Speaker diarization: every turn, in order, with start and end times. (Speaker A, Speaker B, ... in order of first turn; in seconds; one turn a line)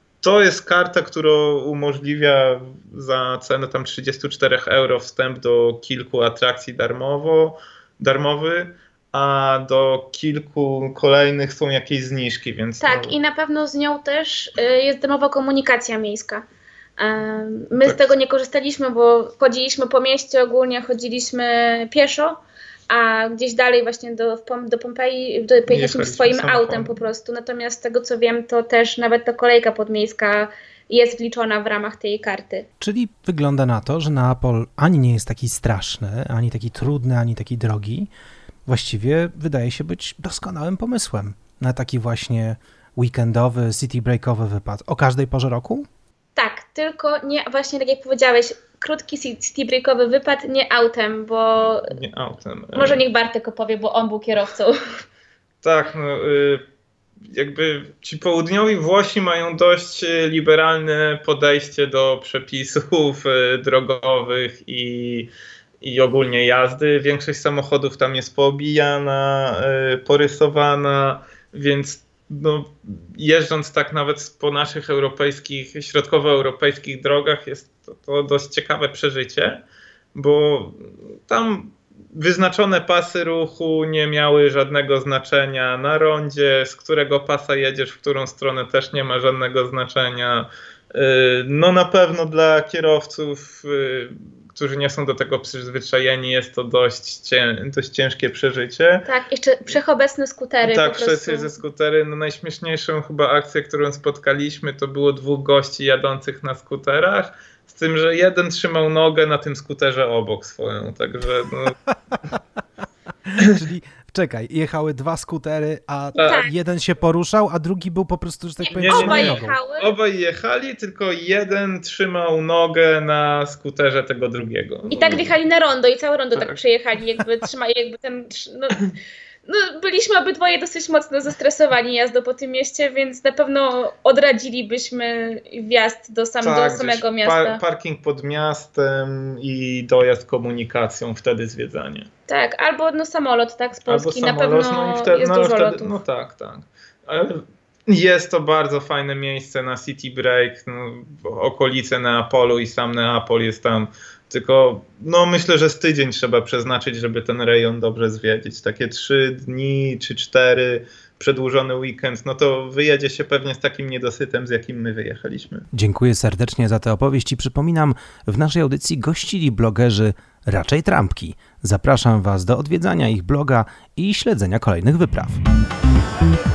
Speaker A: 0.2-13.2
Speaker B: 12.8-16.4
Speaker B: 17.0-32.6
Speaker A: 17.8-18.1
Speaker A: 25.7-27.0
Speaker C: 32.8-38.1
Speaker C: 38.7-45.9
Speaker B: 46.3-51.9
Speaker A: 51.9-53.0
Speaker B: 52.7-55.0
Speaker A: 55.6-56.6
Speaker A: 57.3-65.3
Speaker A: 65.8-79.6
Speaker A: 80.1-99.0
Speaker B: 99.0-101.5
Speaker A: 100.6-111.8
Speaker C: 113.3-119.6
Speaker B: 118.7-119.9
Speaker A: 118.7-125.3
Speaker B: 124.9-128.8
Speaker B: 129.4-137.6
Speaker A: 136.4-142.1
Speaker B: 142.3-146.0
Speaker A: 143.9-165.7
Speaker C: 165.7-175.4